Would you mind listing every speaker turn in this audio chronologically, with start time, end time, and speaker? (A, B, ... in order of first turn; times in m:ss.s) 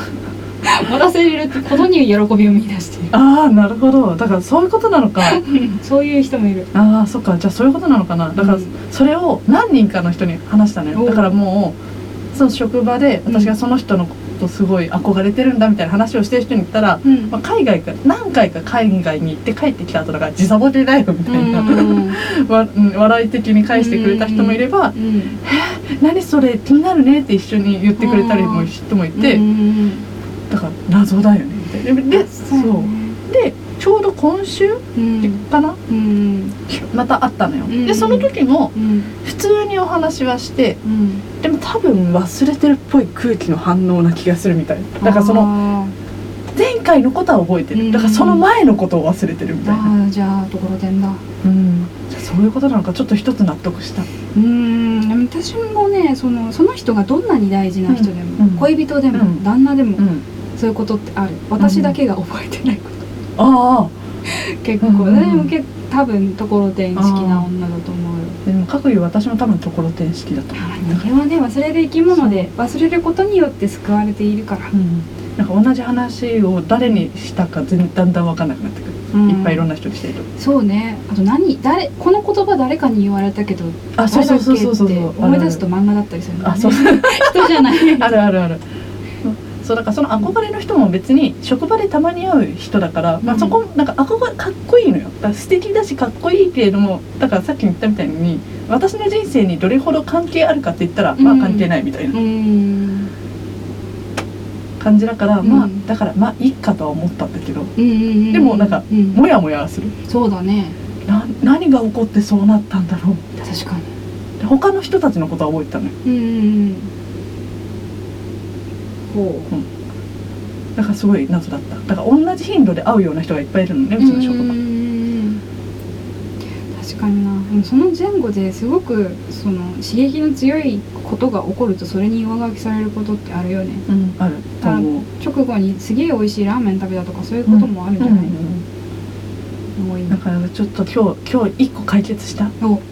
0:00.6-0:03.2 A
0:03.1-0:05.4 B
0:05.2-0:06.7 A
0:06.7-0:11.8 B
0:08.4-0:08.7 A
0:10.9-0:11.3 A
0:12.3-0:29.4 B
0:17.0-0:17.3 A
0:21.3-0:22.2 A
0:23.7-0:25.4 A
0:28.0-0:30.0 A
0:30.5-0:35.8 B
0:32.1-0:33.2 A
0:35.0-0:36.6 A
0:36.7-0:40.8 B
0:37.7-0:39.1 A
0:40.8-0:41.2 A
0:41.4-0:45.5 B
0:45.0-0:45.9 A
0:46.5-0:49.9 B
0:47.7-0:48.5 A
0:49.6-0:51.2 A
0:51.4-0:54.1 B
0:54.3-1:03.1 A
0:57.9-0:59.4 B
1:00.0-1:00.2 B
1:01.6-1:02.0 B
1:03.4-1:03.9 B
1:04.3-1:08.4 A
1:04.8-1:05.5 B
1:07.0-1:07.5 B
1:08.4-1:11.1 B
1:10.6-1:14.7 A
1:12.1-1:12.5 B
1:14.7-1:20.3 B
1:19.1-1:19.7 A
1:20.4-1:28.2 A
1:24.0-1:25.6 B
1:26.4-1:28.6 B
1:29.2-1:42.2 B
1:33.2-1:33.6 A
1:41.2-1:43.1 A
1:44.8-1:47.7 B
1:45.4-1:45.8 A
1:47.8-1:49.2 A
1:48.3-1:49.9 B
1:50.0-1:50.8 A
1:51.1-1:53.3 B
1:53.4-1:53.9 A
1:54.4-1:55.9 B
1:56.0-1:56.9 A
1:59.1-1:59.5 A
2:00.8-2:04.6 B
2:04.0-2:05.4 A
2:06.7-2:13.9 A
2:13.9-2:15.0 B
2:14.6-2:18.4 A
2:17.5-2:18.6 B
2:19.8-2:20.2 A
2:20.1-2:22.5 B